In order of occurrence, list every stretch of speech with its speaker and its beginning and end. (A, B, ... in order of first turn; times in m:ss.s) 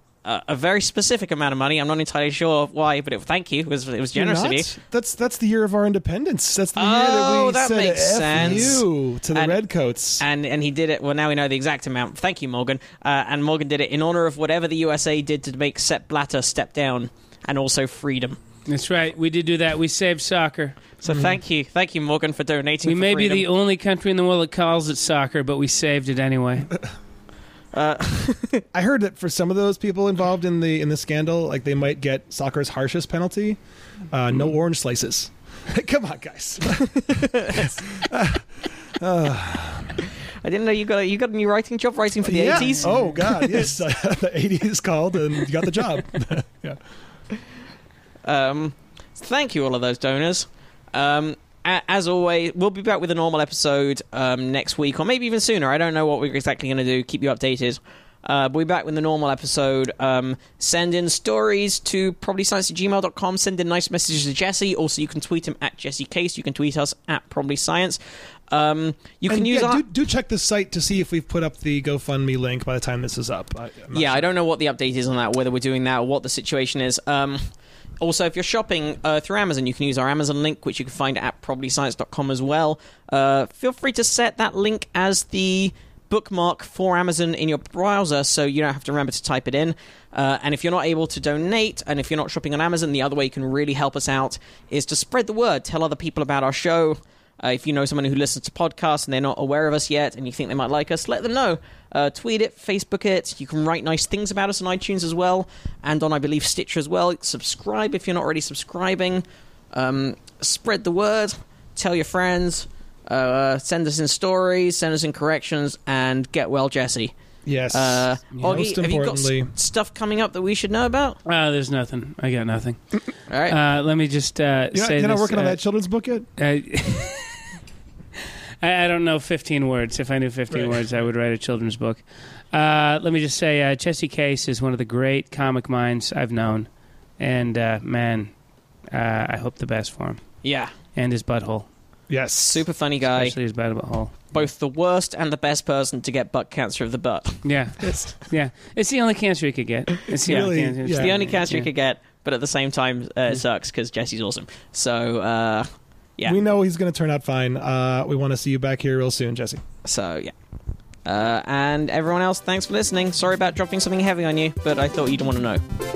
0:00.2-0:04.7 A
0:04.1-0:10.2 B
0:06.7-0:09.6 A
0:10.2-0:18.4 A
0:18.7-0:20.8 C
0:21.0-0:23.4 A
0:21.1-0:21.4 B
0:22.8-0:26.7 C
0:27.7-0:28.6 A
0:28.7-0:33.6 B
0:34.1-0:40.1 B
0:37.0-0:37.8 A
0:40.4-0:43.4 A
0:42.2-0:46.8 B
0:42.6-0:43.2 C
0:48.2-1:08.0 A
1:08.5-1:09.8 A
1:09.3-1:14.3 B
1:13.9-1:17.4 A
1:18.0-1:57.1 A
1:57.4-1:59.5 B
1:57.7-2:01.2 A
2:01.2-2:05.6 C
2:03.3-2:03.6 A
2:04.7-2:06.3 B
2:06.4-2:07.4 C
2:08.2-2:16.7 C
2:10.5-2:10.9 B
2:17.2-2:18.3 C
2:18.9-2:20.2 C
2:20.4-2:20.7 A
2:21.0-2:21.7 C
2:22.1-2:22.6 B
2:22.4-2:23.4 A
2:23.0-2:24.1 C
2:24.3-2:28.1 A
2:27.4-2:31.7 C
2:30.2-2:31.2 B
2:30.9-2:36.4 A
2:36.3-2:39.6 B
2:39.8-2:40.3 A
2:41.0-2:45.6 A